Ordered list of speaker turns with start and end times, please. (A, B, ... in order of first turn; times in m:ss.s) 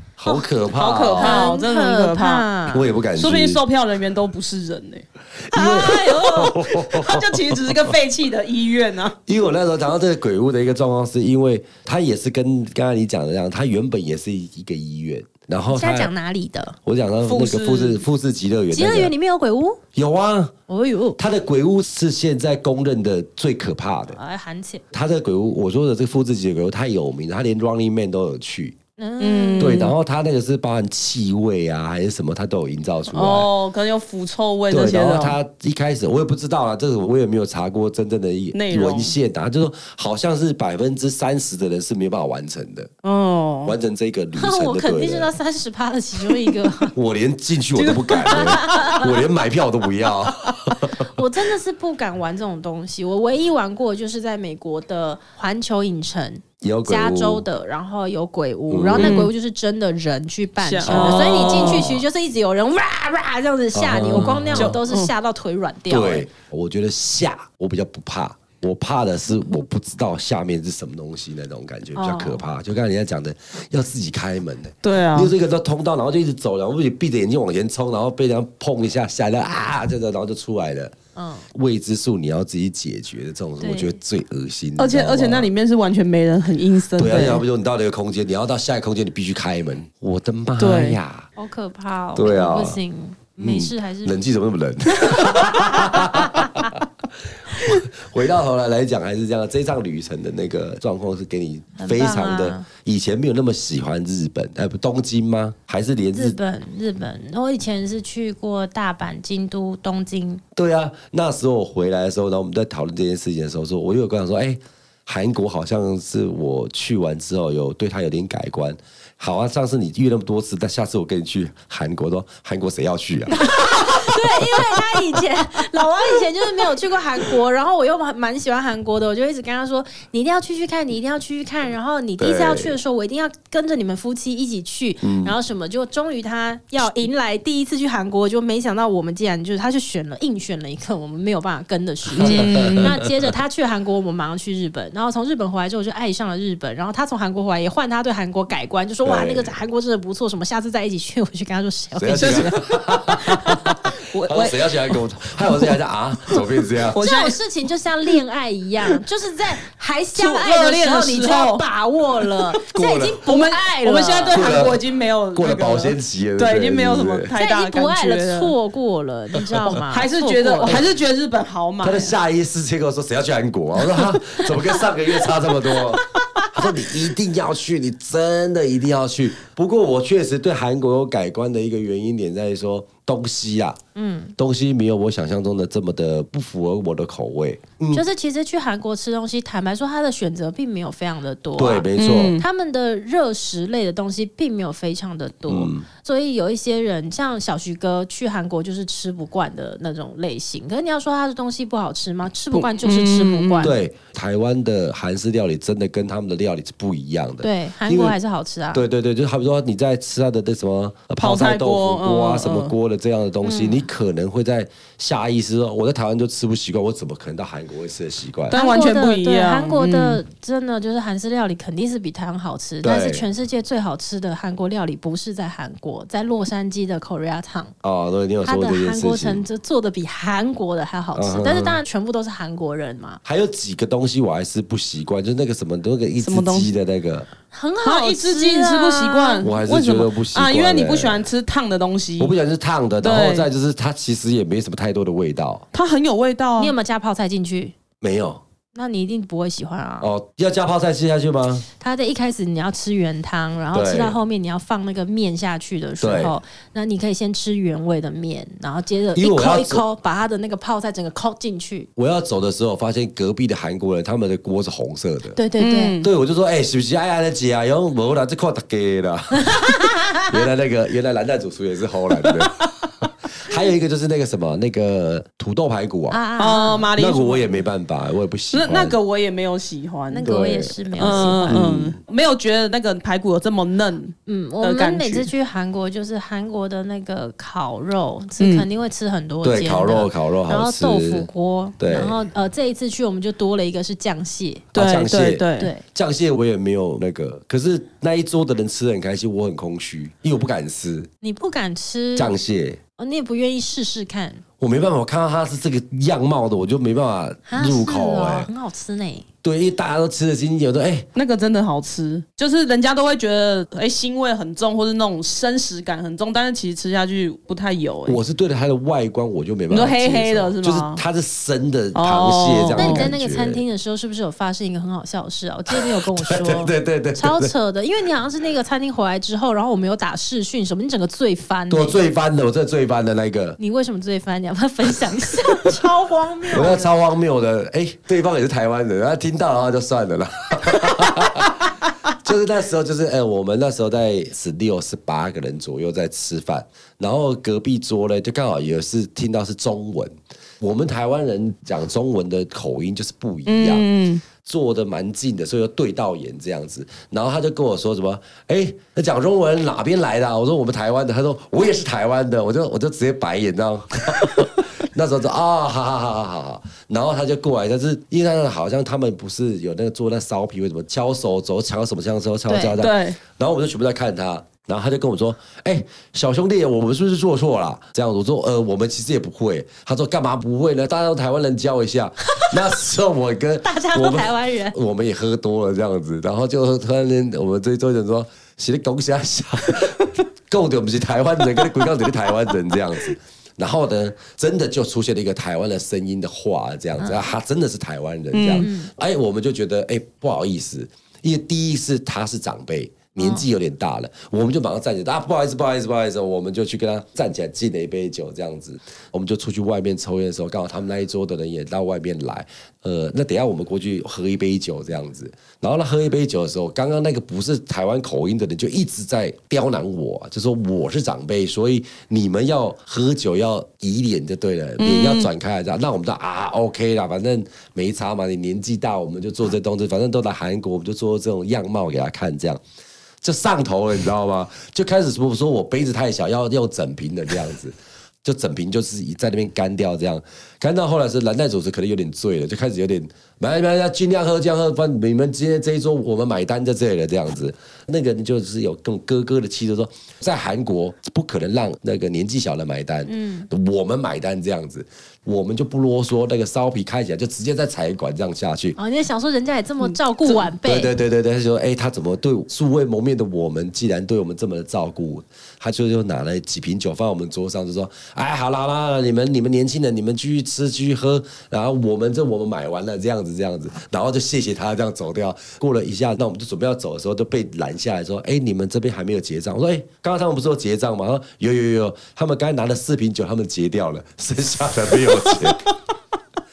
0:00.2-0:01.5 A
0:00.7-0:02.5 B
0:01.2-0:02.9 C
0:02.7-0:03.6 A
0:03.2-0:05.0 B
0:05.5-0:08.0 A
0:05.5-0:06.6 C
0:06.1-0:09.2 B
0:09.3-0:16.1 A
0:15.7-0:16.8 C
0:16.8-0:19.1 A
0:17.2-0:18.0 B
0:18.7-0:19.8 C
0:20.0-0:20.6 A
0:20.7-0:21.2 C
0:21.2-0:24.2 A
0:24.1-0:24.8 C
0:24.9-0:28.8 A
0:29.0-0:29.9 C
0:29.2-0:30.0 B
0:29.6-0:33.5 A
0:33.1-0:35.4 B
0:34.7-0:42.9 A
0:38.5-0:39.2 B
0:43.0-0:43.8 B
0:43.6-0:45.3 A
0:44.4-0:46.9 C
0:46.9-0:51.1 A
0:47.8-0:49.0 B
0:48.3-0:49.1 C
0:51.1-1:06.3 C
0:56.6-0:57.4 A
0:58.7-0:59.3 A
0:59.0-0:59.3 B
1:00.6-1:02.0 B
1:00.9-1:02.0 A
1:03.7-1:04.8 A
1:04.6-1:05.1 B
1:05.9-1:20.9 A
1:12.0-1:12.4 C
1:14.8-1:15.3 B
1:21.2-1:21.5 C
1:21.5-1:25.5 A
1:23.6-1:23.9 C
1:24.8-1:27.4 B
1:27.0-1:31.3 A
1:30.6-1:31.0 B
1:31.4-1:34.2 C
1:32.2-1:32.8 A
1:33.4-1:36.8 A
1:35.1-1:36.7 C
1:37.6-1:46.4 A
1:41.8-1:42.7 C
1:46.1-1:50.4 C
1:50.6-2:04.8 A
2:03.3-2:32.6 C
2:12.2-2:12.8 A
2:15.0-2:15.4 A
2:22.2-2:23.1 A
2:22.2-2:23.0 B
2:29.0-2:29.5 A
2:32.0-2:37.0 A
2:32.2-2:35.0 B
2:36.3-2:37.4 B
2:37.0-2:44.7 C
2:40.2-2:41.6 B
2:42.7-2:43.2 A
2:43.3-2:48.5 B
2:44.3-2:47.3 A
2:47.4-2:50.8 C
2:49.7-2:52.2 B
2:51.8-3:03.8 A
3:04.0-3:04.4 C
3:04.4-3:08.0 A
3:07.9-3:23.8 C
3:11.6-3:12.4 A
3:12.0-3:12.4 B
3:15.5-3:15.9 A
3:22.5-3:23.8 B
3:23.6-3:28.2 A
3:27.4-3:28.8 C
3:28.7-3:38.6 A
3:31.2-3:32.7 B
3:33.4-3:33.8 C
3:38.5-3:40.2 B
3:38.5-3:47.7 C
3:42.8-3:43.3 A
3:47.8-3:49.4 A
3:48.4-3:53.2 C
3:51.2-3:51.8 A
3:53.2-3:57.3 A
3:56.2-3:56.7 B
3:57.5-3:59.5 C
3:57.8-4:02.3 B
3:59.4-4:01.3 A
4:02.2-4:05.6 A
4:03.0-4:03.5 B
4:05.7-4:06.8 B
4:06.6-4:07.8 C
4:08.0-4:08.4 A
4:08.7-4:10.1 C
4:10.0-4:11.7 A
4:11.8-4:21.9 C
4:13.7-4:14.2 A
4:16.0-4:16.4 A
4:19.2-4:19.8 A
4:22.0-4:25.4 A
4:25.4-4:26.0 C
4:25.6-4:26.1 B
4:26.0-4:36.2 A
4:29.4-4:30.3 C
4:32.2-4:32.7 B
4:36.1-4:36.9 C
4:36.4-4:37.5 B
4:37.0-4:39.0 A
4:38.5-4:40.2 B
4:40.1-4:41.6 C
4:40.2-4:42.0 A
4:41.0-4:45.3 B
4:44.3-4:54.7 C
4:48.4-4:48.7 B
4:49.4-4:52.2 A
4:54.7-4:55.7 B
4:54.8-5:01.1 A
4:55.6-4:55.8 C
5:01.2-5:02.4 C
5:02.2-5:02.8 A
5:03.0-5:04.4 C
5:04.6-5:08.5 A
5:07.5-5:09.3 C
5:09.4-5:11.1 A
5:11.2-5:18.2 B
5:18.1-5:23.6 A
5:19.7-5:21.0 B
5:22.0-5:23.1 B
5:22.8-5:32.0 C
5:25.8-5:27.5 A
5:31.7-5:33.6 A
5:33.6-5:36.9 C
5:35.5-5:35.8 A
5:36.5-5:53.9 A
5:53.5-5:54.2 B
5:54.4-7:12.6 A
6:12.5-6:12.8 C
6:12.8-6:13.2 B
6:23.6-6:24.8 C
6:38.3-6:38.7 B
6:38.6-6:38.9 C
7:04.8-7:05.3 B
7:13.2-7:38.8 A
7:33.1-7:33.5 C
7:38.8-7:40.9 C
7:40.6-8:05.6 A